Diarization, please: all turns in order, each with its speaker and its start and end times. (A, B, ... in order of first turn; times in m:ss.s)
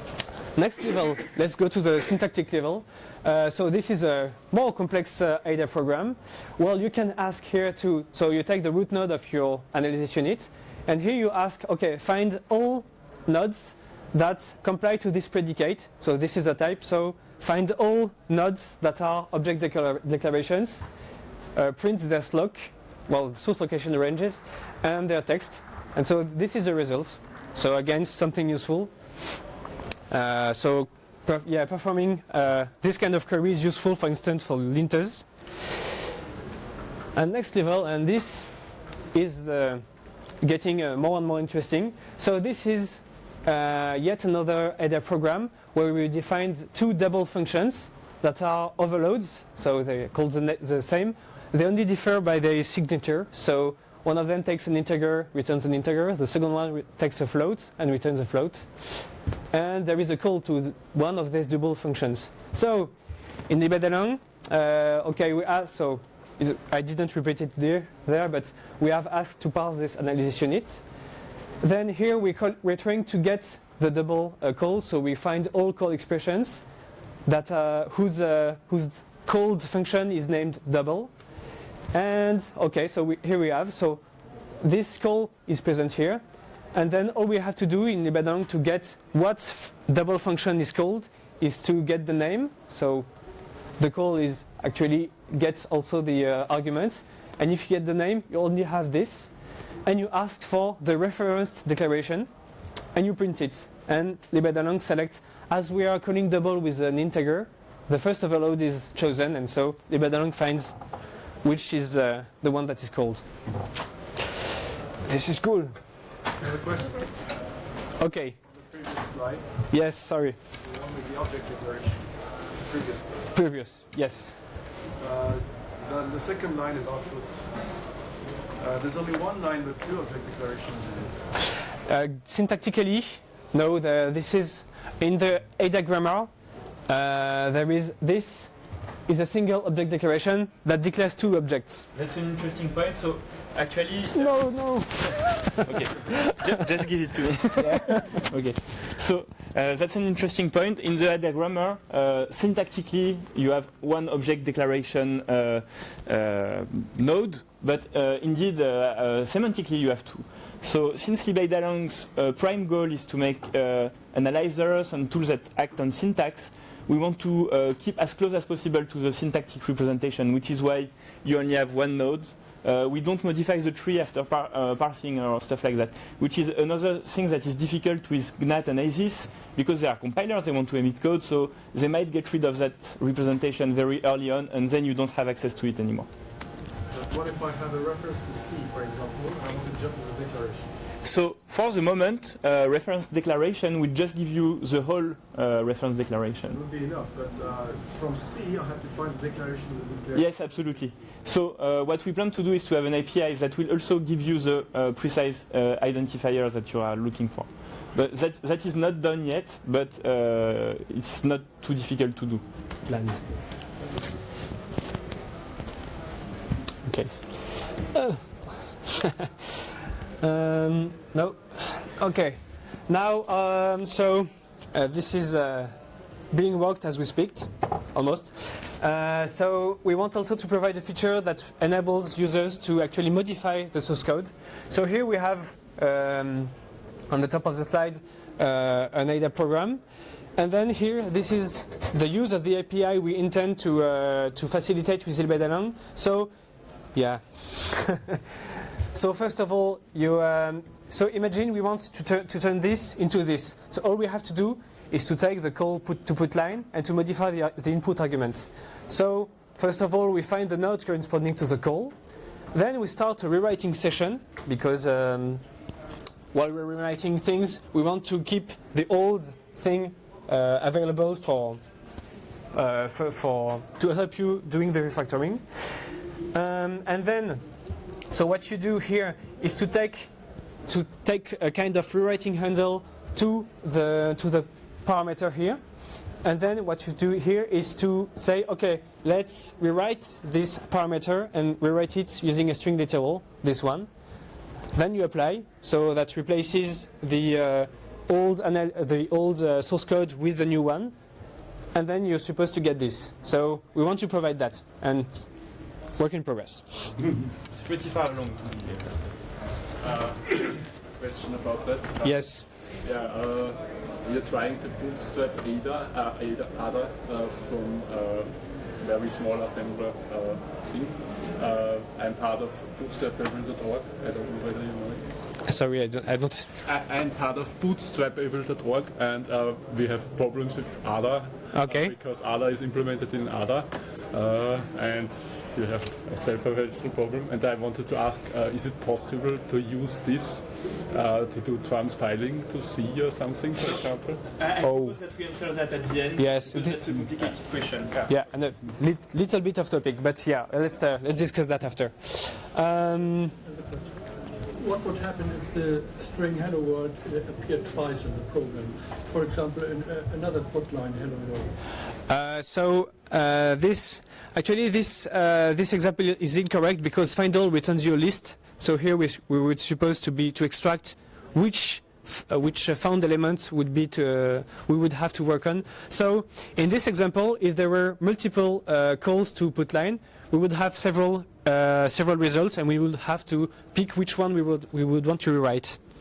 0:00.6-0:20.8 A
0:21.6-0:29.1 A
0:30.1-0:35.8 A
0:37.2-0:39.8 A
0:40.4-1:02.9 A
1:03.5-1:10.8 A
1:11.6-1:16.6 A
1:17.2-1:21.1 A
1:21.9-1:24.0 A
1:24.6-1:26.2 A
1:26.7-1:33.1 A
1:33.8-1:39.3 A
1:39.8-1:42.3 A
1:42.9-1:50.8 A
1:51.4-1:53.5 A
1:55.0-1:55.8 A
1:56.4-1:57.3 B
1:58.0-1:58.4 A
1:58.5-1:59.5 B
1:59.7-2:00.4 A
2:00.6-2:03.3 B
2:03.3-2:04.4 A
2:05.0-2:08.0 B
2:08.6-2:11.2 B
2:11.9-2:16.3 A
2:16.9-2:18.5 A
2:19.1-2:21.9 A
2:21.9-3:06.1 C
2:24.1-2:25.6 A
2:27.6-2:28.2 A
3:06.9-3:10.7 B
3:11.0-3:16.6 C
3:16.5-3:20.6 B
3:20.1-3:32.4 C
3:32.9-3:33.3 A
3:36.8-3:39.3 A
3:40.2-3:45.8 A
3:46.3-3:56.5 A
3:57.1-3:59.8 A
4:00.4-4:06.3 A
4:06.9-4:08.2 A
4:08.9-4:21.9 A
4:22.5-4:25.4 A
4:26.3-4:31.6 A
4:32.5-4:37.4 A
4:38.1-4:40.1 A
4:40.6-4:45.6 A
4:46.2-4:53.9 A
4:54.7-5:01.0 A
5:01.7-5:07.0 A
5:07.5-5:09.0 C
5:09.8-5:25.1 D
5:12.0-5:12.5 A
5:25.4-5:26.5 A
5:26.6-5:44.2 D
5:31.5-5:31.9 A
5:43.6-5:47.9 C
5:44.6-5:45.0 A
5:46.2-5:46.8 A
5:47.9-5:48.2 D
5:48.1-5:53.3 A
5:53.4-6:01.5 E
6:02.1-6:25.8 A